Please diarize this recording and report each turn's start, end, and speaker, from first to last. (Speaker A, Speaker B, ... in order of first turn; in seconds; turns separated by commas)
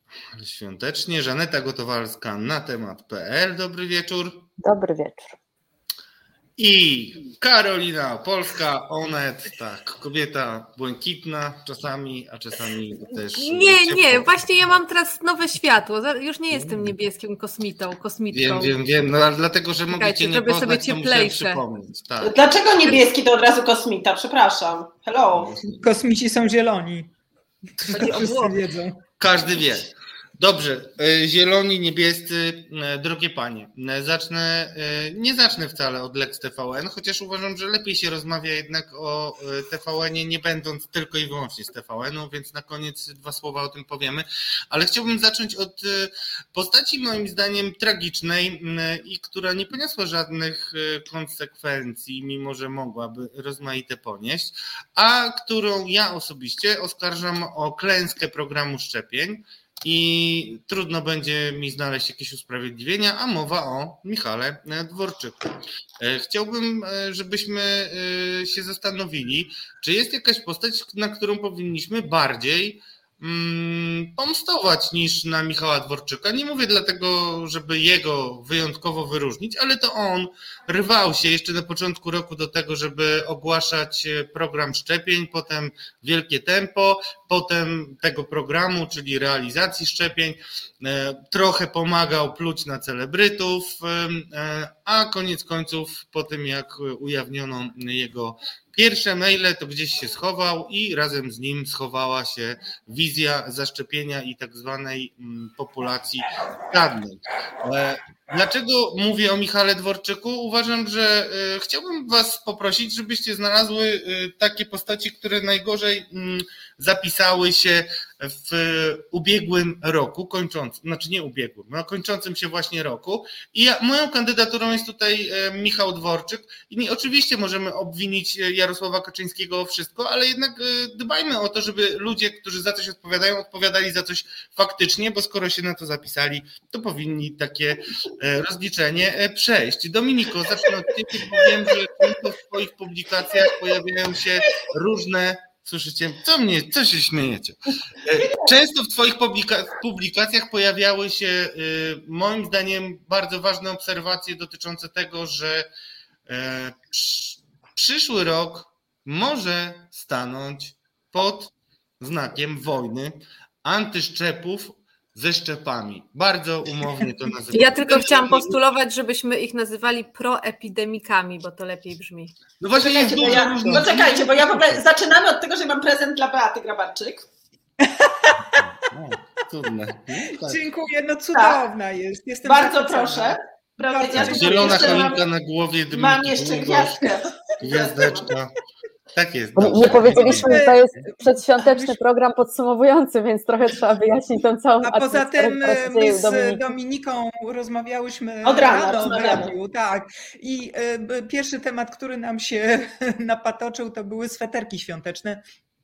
Speaker A: 0.4-4.5, Speaker B: 4.6-5.4, Speaker A: 6.6-14.3, Speaker C: 13.3-18.8, Speaker A: 18.3-23.0, Speaker C: 19.9-21.6, Speaker D: 22.2-25.6, Speaker E: 25.8-27.1, Speaker E: 27.8-29.0, Speaker C: 27.9-28.6, Speaker A: 29.2-65.5, Speaker A: 66.0-155.7, Speaker A: 156.3-168.4, Speaker C: 167.5-172.4, Speaker A: 172.6-174.8, Speaker D: 172.7-177.2, Speaker E: 172.9-173.9, Speaker E: 177.8-178.6, Speaker A: 178.8-180.6, Speaker E: 180.4-185.1, Speaker D: 181.3-181.6, Speaker D: 182.4-185.2, Speaker A: 184.2-187.0, Speaker D: 185.9-188.3, Speaker A: 187.6-188.5, Speaker A: 189.2-190.5, Speaker B: 189.6-196.7, Speaker E: 190.0-192.0, Speaker E: 194.8-205.4, Speaker D: 198.4-199.5